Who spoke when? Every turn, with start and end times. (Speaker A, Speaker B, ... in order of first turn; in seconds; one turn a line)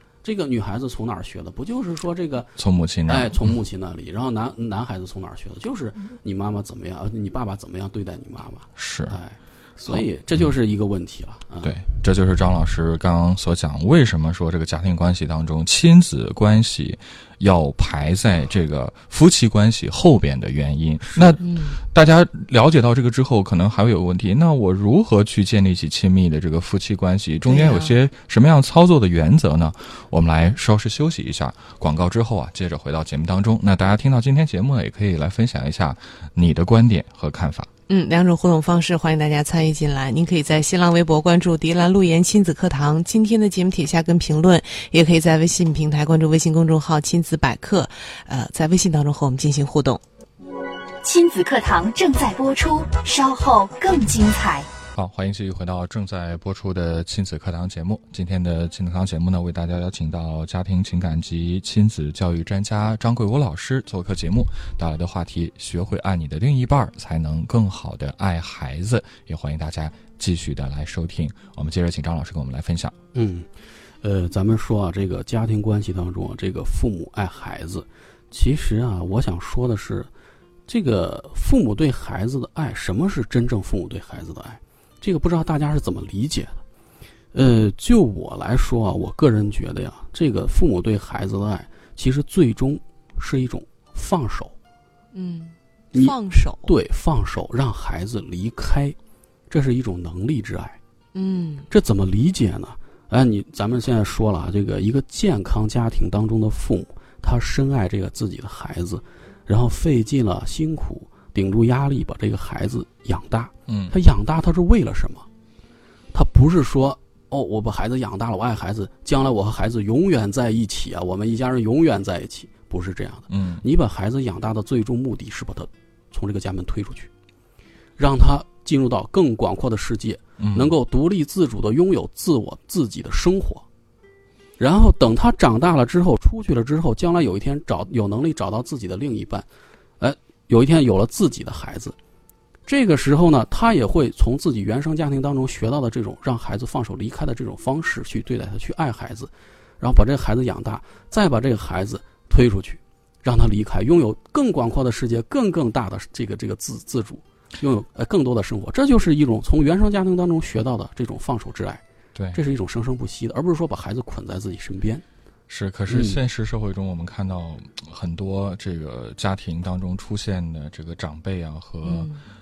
Speaker A: 0.2-2.5
Speaker B: 2.6-3.4
Speaker A: 3.1-11.8
Speaker B: 8.8-9.2
Speaker B: 9.9-10.4
Speaker B: 11.6-37.7
Speaker C: 21.4-21.8
Speaker C: 27.5-28.0
Speaker C: 37.9-50.0
Speaker D: 51.0-54.7
Speaker B: 55.0-72.9
Speaker A: 73.1-73.5
Speaker A: 74.0-80.1
Speaker A: 80.7-86.6
Speaker A: 87.3-94.5
Speaker C: 95.1-96.7
Speaker A: 95.9-99.0
Speaker A: 99.5-100.8
Speaker C: 101.2-101.7
Speaker A: 101.7-115.3
Speaker B: 113.7-113.9
Speaker A: 116.1-127.1
Speaker B: 123.3-123.7
Speaker A: 128.0-133.7
Speaker B: 130.4-130.7
Speaker A: 134.6-139.5
Speaker A: 140.0-142.0
Speaker A: 142.7-161.8
Speaker B: 162.2-162.4
Speaker A: 162.3-165.0
Speaker B: 165.5-172.1
Speaker A: 165.9-166.2
Speaker C: 171.8-172.2